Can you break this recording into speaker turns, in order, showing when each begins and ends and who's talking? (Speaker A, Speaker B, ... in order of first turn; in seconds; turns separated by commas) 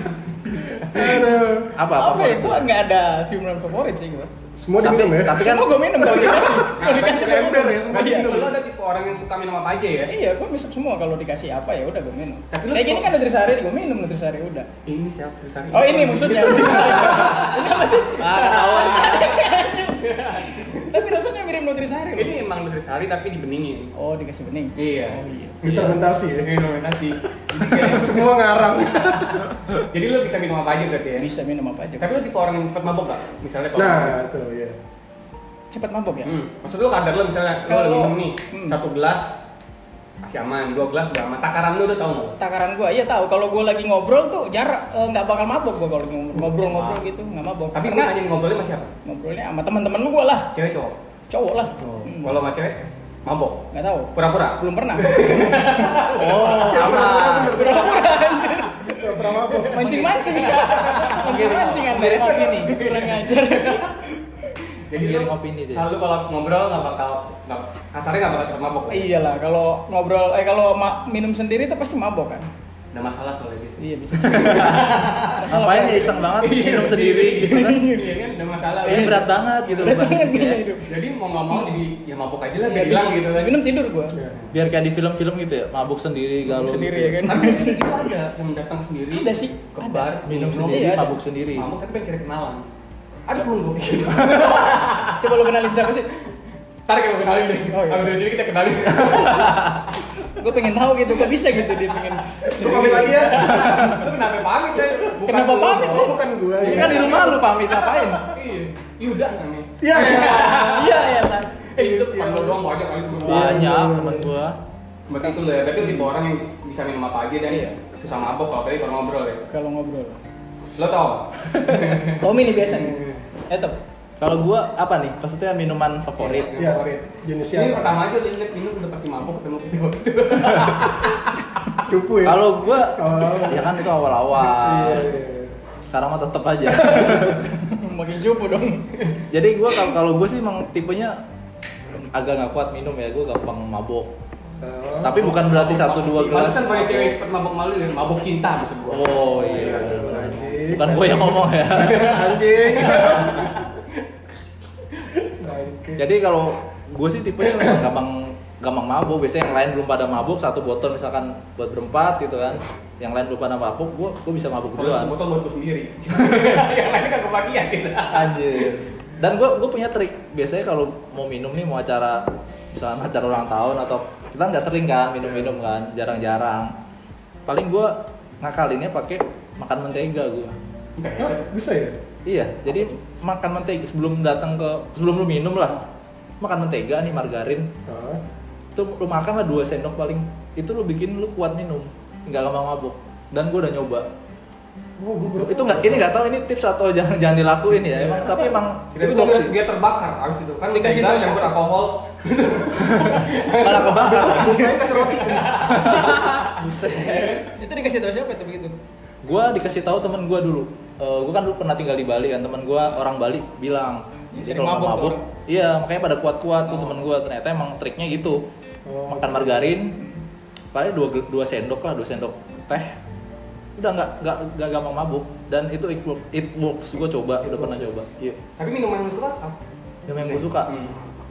Speaker A: 0.5-1.3, Speaker B: 0.9-1.7, Speaker C: 1.8-2.7, Speaker D: 1.9-4.3, Speaker B: 4.5-5.6, Speaker C: 4.8-6.2, Speaker D: 5.3-8.3, Speaker A: 6.0-10.1, Speaker B: 6.1-8.6, Speaker D: 10.1-14.7, Speaker A: 12.5-13.1, Speaker A: 14.8-19.3, Speaker D: 15.7-22.3, Speaker C: 18.2-19.4, Speaker A: 20.0-21.0, Speaker A: 22.1-23.9, Speaker D: 23.9-25.6, Speaker A: 24.8-31.3, Speaker B: 25.6-26.5, Speaker B: 27.5-29.5, Speaker D: 31.2-32.1, Speaker A: 32.0-34.2, Speaker B: 33.7-34.8, Speaker D: 35.7-36.3, Speaker A: 36.2-39.3, Speaker D: 37.6-38.8, Speaker A: 40.2-42.4, Speaker D: 42.4-48.1, Speaker A: 47.7-48.9, Speaker D: 49.0-50.5, Speaker A: 50.5-51.0, Speaker D: 51.3-52.4, Speaker C: 51.8-52.1, Speaker A: 52.2-61.5, Speaker D: 53.7-55.9, Speaker C: 56.1-57.8, Speaker B: 56.6-58.1, Speaker D: 57.4-58.9, Speaker B: 58.9-59.8, Speaker D: 59.7-64.2, Speaker C: 59.8-62.8, Speaker A: 62.6-63.9, Speaker A: 64.9-69.1, Speaker C: 64.9-65.8, Speaker D: 68.9-72.5, Speaker A: 72.9-80.0, Speaker D: 73.8-76.3, Speaker C: 74.2-74.9, Speaker C: 75.5-77.8, Speaker D: 77.4-78.1, Speaker C: 78.8-80.6, Speaker D: 78.8-80.9, Speaker A: 80.8-83.6, Speaker D: 82.6-84.1, Speaker C: 84.5-87.3, Speaker D: 86.5-87.8, Speaker A: 87.2-92.7, Speaker D: 89.1-91.1, Speaker C: 90.2-91.7, Speaker A: 93.3-95.3, Speaker D: 94.2-96.1, Speaker A: 96.9-99.8, Speaker D: 97.7-98.1, Speaker C: 99.0-99.8, Speaker D: 100.3-103.9, Speaker A: 101.3-107.5, Speaker B: 102.5-103.9, Speaker C: 103.5-104.0, Speaker D: 105.2-106.2, Speaker B: 105.9-108.2, Speaker C: 106.6-108.2, Speaker A: 108.3-111.1, Speaker B: 109.8-110.9, Speaker D: 110.0-111.5, Speaker A: 111.7-113.6, Speaker B: 111.8-112.6, Speaker B: 113.2-114.3, Speaker C: 113.2-114.6, Speaker A: 115.1-119.4, Speaker D: 115.8-116.1, Speaker D: 117.5-117.8, Speaker D: 119.5-120.2, Speaker A: 120.8-123.2, Speaker D: 122.0-123.8, Speaker C: 124.2-126.5, Speaker A: 126.2-131.4, Speaker B: 126.6-128.0, Speaker B: 131.8-133.8, Speaker C: 132.2-135.1, Speaker B: 134.4-135.5, Speaker C: 135.8-137.5, Speaker D: 136.8-139.0, Speaker B: 136.9-137.4, Speaker C: 139.3-141.2, Speaker C: 142.0-144.1, Speaker B: 144.6-145.5, Speaker C: 145.0-147.2, Speaker A: 145.2-150.6, Speaker C: 148.9-152.4, Speaker B: 149.3-153.6, Speaker A: 151.8-153.9, Speaker B: 155.2-156.0, Speaker C: 156.0-165.1, Speaker A: 164.8-168.7, Speaker C: 168.1-176.7, Speaker B: 175.2-175.5, Speaker C: 177.4-180.5, Speaker A: 181.0-181.4, Speaker B: 181.2-182.0, Speaker C: 182.2-185.8, Speaker C: 186.4-187.7, Speaker B: 187.8-188.2, Speaker C: 188.7-194.1, Speaker B: 195.0-196.1, Speaker C: 195.3-199.5, Speaker A: 198.9-207.4, Speaker D: 200.7-201.5, Speaker C: 202.9-204.7, Speaker B: 203.9-205.8, Speaker D: 204.3-204.9, Speaker C: 205.6-207.4, Speaker D: 207.5-208.7, Speaker C: 209.2-218.4, Speaker D: 214.3-215.2, Speaker B: 218.8-219.8, Speaker C: 219.1-220.0, Speaker C: 220.7-223.0, Speaker C: 223.8-228.3, Speaker B: 227.4-227.9, Speaker A: 228.6-229.6, Speaker C: 230.1-230.7, Speaker A: 230.1-231.0